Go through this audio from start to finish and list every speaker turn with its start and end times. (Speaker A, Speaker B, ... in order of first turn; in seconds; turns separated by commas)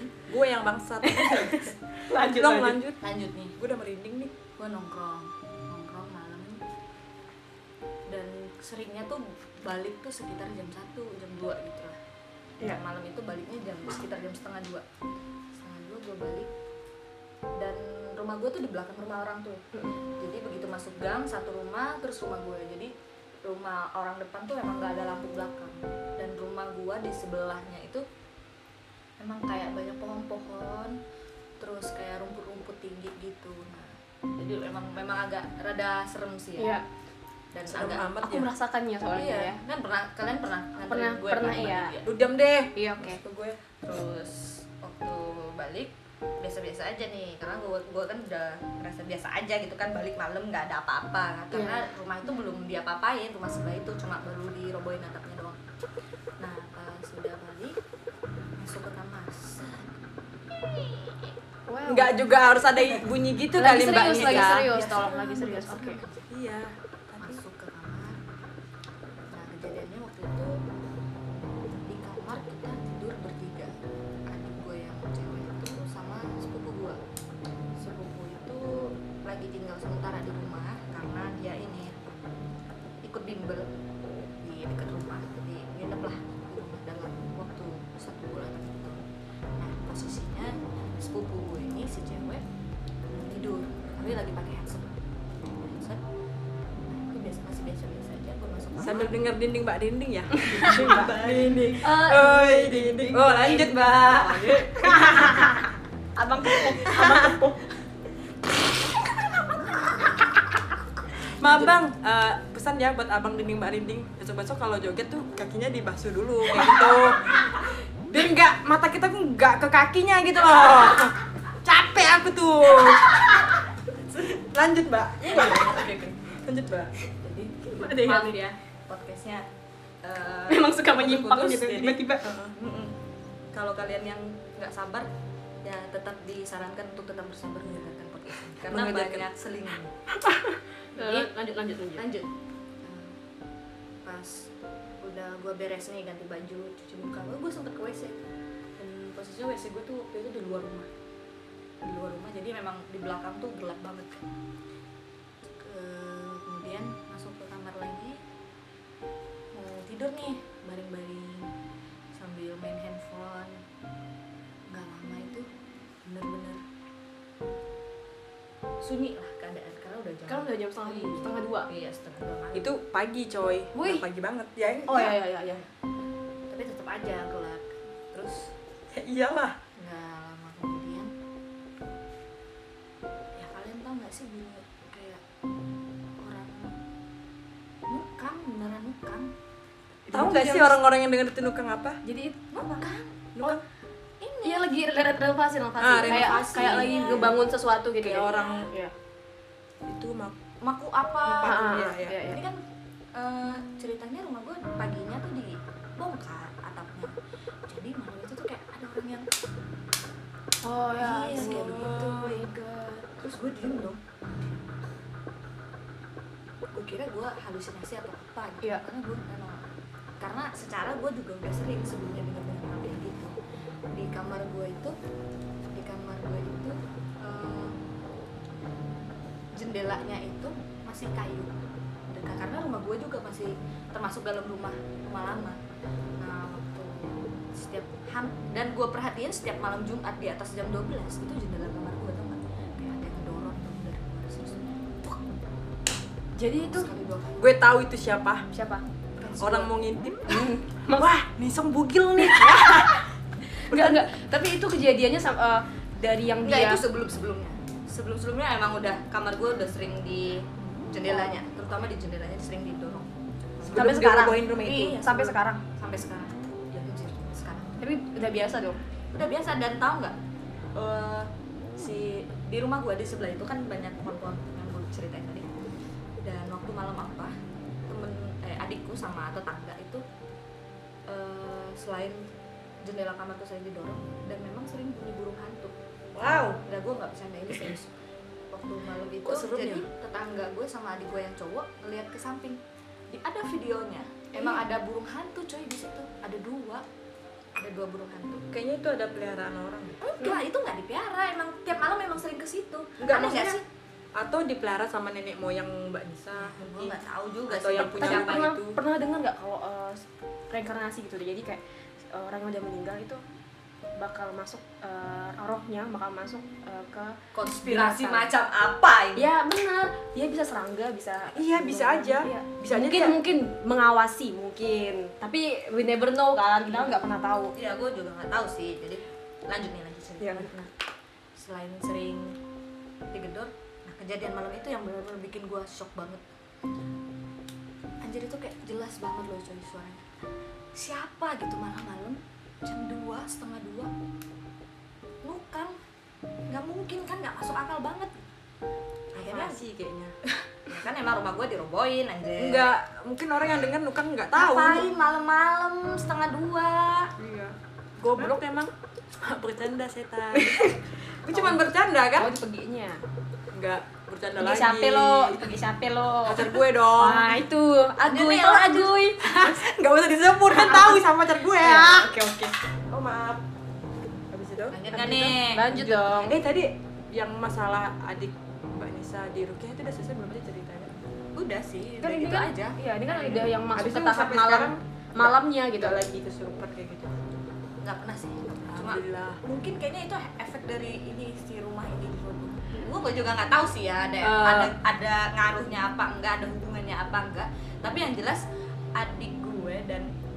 Speaker A: 0.3-3.0, Speaker B: 1.0-2.8, Speaker C: 3.0-3.6, Speaker A: 3.6-4.3, Speaker C: 4.6-6.6, Speaker C: 8.1-12.0, Speaker C: 12.6-15.0, Speaker C: 15.6-16.5, Speaker C: 17.6-19.6, Speaker B: 19.7-20.0, Speaker C: 20.2-22.9, Speaker C: 23.4-28.0, Speaker C: 29.2-31.0, Speaker C: 31.6-36.8, Speaker B: 36.6-36.8, Speaker C: 37.5-38.1, Speaker A: 37.7-38.5, Speaker B: 38.2-39.6, Speaker C: 39.1-42.2, Speaker B: 40.9-42.0, Speaker A: 42.0-43.5, Speaker B: 42.8-43.2, Speaker C: 43.0-55.6, Speaker B: 51.5-51.9, Speaker C: 56.4-57.8, Speaker C: 58.6-60.0, Speaker C: 60.7-61.2, Speaker B: 61.7-62.5, Speaker A: 61.9-64.7, Speaker C: 62.8-63.0, Speaker B: 63.5-66.0, Speaker C: 63.8-66.2, Speaker A: 66.3-67.4, Speaker C: 67.2-68.3, Speaker C: 69.3-70.6, Speaker C: 71.7-73.7, Speaker C: 74.3-77.0, Speaker C: 77.8-82.0, Speaker C: 83.0-83.7, Speaker C: 84.4-89.0, Speaker C: 89.6-92.4, Speaker C: 93.1-95.0, Speaker C: 95.5-96.0, Speaker C: 96.9-99.2, Speaker A: 98.8-105.7, Speaker B: 100.5-100.9, Speaker C: 100.6-101.9, Speaker B: 101.8-103.7, Speaker C: 103.2-105.4, Speaker B: 104.5-105.6, Speaker B: 106.2-107.6, Speaker A: 106.4-107.4, Speaker C: 109.3-110.2, Speaker A: 111.3-123.5, Speaker A: 124.1-126.9, Speaker C: 125.2-126.2, Speaker C: 127.2-129.5, Speaker B: 127.7-128.5, Speaker C: 130.0-132.0, Speaker B: 130.5-132.3, Speaker A: 132.2-132.5, Speaker C: 132.5-133.0, Speaker C: 133.5-135.1, Speaker C: 135.6-139.9, Speaker A: 138.7-139.3, Speaker B: 140.2-142.1, Speaker C: 141.0-141.3, Speaker C: 141.9-142.3, Speaker C: 142.8-143.2, Speaker C: 144.0-144.5, Speaker C: 145.0-148.2, Speaker C: 148.8-150.9, Speaker C: 151.8-154.3, Speaker C: 155.6-158.2, Speaker C: 159.5-161.5, Speaker C: 162.1-163.6, Speaker C: 164.7-165.5, Speaker C: 166.1-166.6, Speaker C: 168.8-172.7, Speaker B: 170.3-171.7, Speaker A: 172.6-175.1, Speaker B: 173.7-174.1, Speaker B: 174.9-175.6, Speaker C: 174.9-175.7, Speaker C: 176.5-178.5, Speaker A: 178.9-179.6, Speaker C: 179.8-181.1, Speaker C: 183.3-185.2, Speaker C: 186.2-186.8, Speaker C: 187.9-189.3, Speaker B: 190.1-190.8, Speaker A: 190.1-192.0, Speaker B: 192.1-192.5, Speaker C: 192.5-193.6, Speaker A: 193.3-193.6, Speaker C: 194.2-194.7, Speaker B: 194.4-198.9, Speaker A: 195.8-197.4, Speaker C: 196.0-197.5, Speaker A: 198.0-198.7, Speaker A: 199.9-200.4, Speaker C: 200.6-202.6, Speaker A: 201.3-202.2, Speaker B: 201.4-202.4, Speaker C: 203.1-207.1, Speaker C: 207.7-209.3, Speaker B: 210.6-212.6, Speaker C: 211.0-214.0, Speaker A: 211.3-212.5, Speaker C: 216.7-219.7, Speaker C: 220.2-223.3, Speaker C: 223.9-224.9, Speaker C: 225.7-227.8, Speaker C: 229.5-231.6, Speaker C: 232.1-235.6, Speaker C: 236.2-245.2, Speaker B: 246.4-246.9, Speaker C: 246.6-247.4, Speaker A: 247.4-248.4, Speaker B: 248.5-248.8, Speaker C: 249.2-249.7, Speaker A: 249.4-253.0, Speaker B: 250.3-251.1, Speaker B: 252.2-253.0, Speaker B: 253.5-256.8, Speaker A: 253.7-254.1, Speaker C: 256.4-267.8, Speaker B: 261.1-261.3, Speaker A: 263.7-265.1, Speaker B: 263.7-265.6, Speaker B: 267.8-268.8, Speaker C: 269.1-270.2, Speaker C: 270.8-275.5, Speaker C: 276.2-277.3, Speaker C: 277.9-280.0, Speaker C: 281.1-282.2, Speaker C: 282.8-287.9, Speaker A: 286.1-286.6, Speaker C: 288.5-296.9, Speaker A: 289.2-289.9, Speaker B: 294.4-294.6, Speaker C: 297.6-298.4, Speaker A: 298.5-300.0, Speaker C: 300.1-303.6, Speaker A: 303.0-303.6, Speaker A: 304.2-308.8, Speaker C: 306.3-308.5, Speaker B: 307.8-313.2, Speaker B: 314.0-318.3, Speaker C: 317.3-319.3, Speaker B: 319.2-327.5, Speaker A: 321.3-323.2, Speaker C: 326.7-330.7, Speaker B: 330.2-330.6, Speaker C: 331.4-332.4, Speaker C: 333.1-336.2, Speaker C: 338.0-340.1, Speaker C: 340.8-343.9, Speaker C: 345.2-345.8, Speaker C: 346.5-348.3, Speaker C: 349.1-349.6, Speaker A: 349.1-350.1, Speaker C: 350.3-352.7, Speaker A: 352.4-354.9, Speaker C: 354.3-357.1, Speaker A: 357.2-362.4, Speaker B: 360.3-363.0, Speaker A: 363.5-365.5, Speaker B: 364.4-369.6, Speaker A: 366.2-367.4, Speaker C: 368.0-369.1, Speaker A: 369.2-373.4, Speaker B: 370.5-371.0, Speaker B: 371.6-372.4, Speaker A: 374.3-374.9, Speaker C: 374.7-376.3, Speaker B: 374.9-376.4, Speaker A: 376.2-380.9, Speaker C: 381.4-383.5, Speaker B: 382.0-386.4, Speaker A: 383.7-387.1, Speaker C: 387.8-398.4, Speaker A: 388.7-389.4, Speaker B: 394.3-394.7, Speaker C: 399.0-400.1